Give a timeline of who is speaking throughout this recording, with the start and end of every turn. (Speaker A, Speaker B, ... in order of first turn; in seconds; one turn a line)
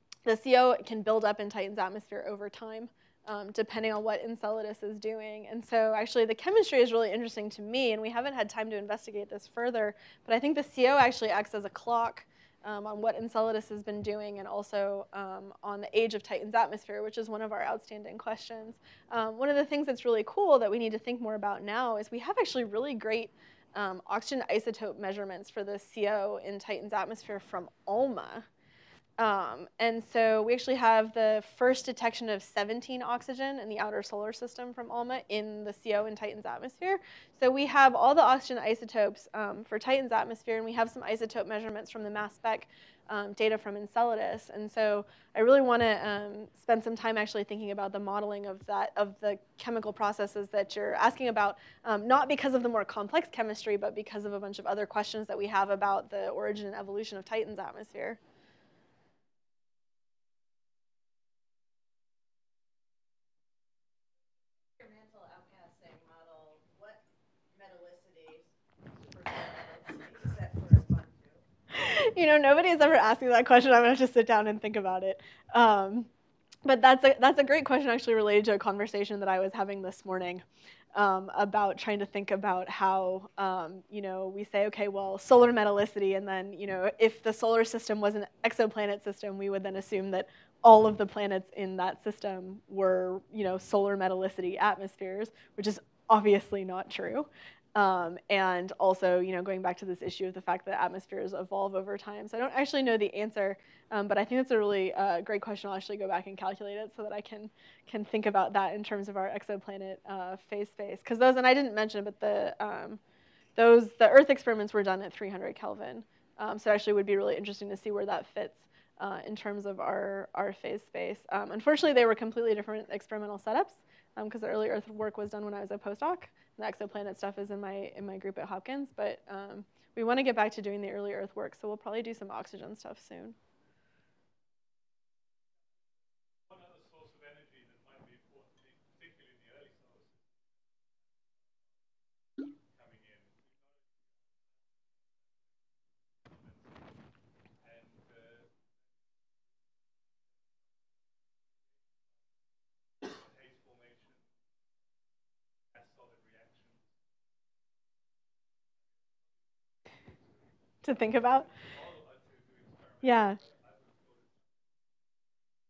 Speaker A: 0.2-28.4
Speaker A: 29.2-58.2
Speaker B: 64.7-67.0
Speaker B: 67.5-71.4
Speaker A: 71.7-76.1
Speaker A: 76.6-80.4
Speaker A: 80.9-113.0
Speaker A: 113.5-133.3
Speaker C: 136.5-142.0
Speaker C: 142.7-145.7
Speaker C: 146.2-146.8
Speaker C: 147.6-152.4
Speaker C: 153.0-154.4
Speaker C: 155.7-157.1
Speaker C: 158.8-159.7
Speaker A: 160.8-161.5
Speaker C: 161.4-164.7
Speaker A: 163.0-163.4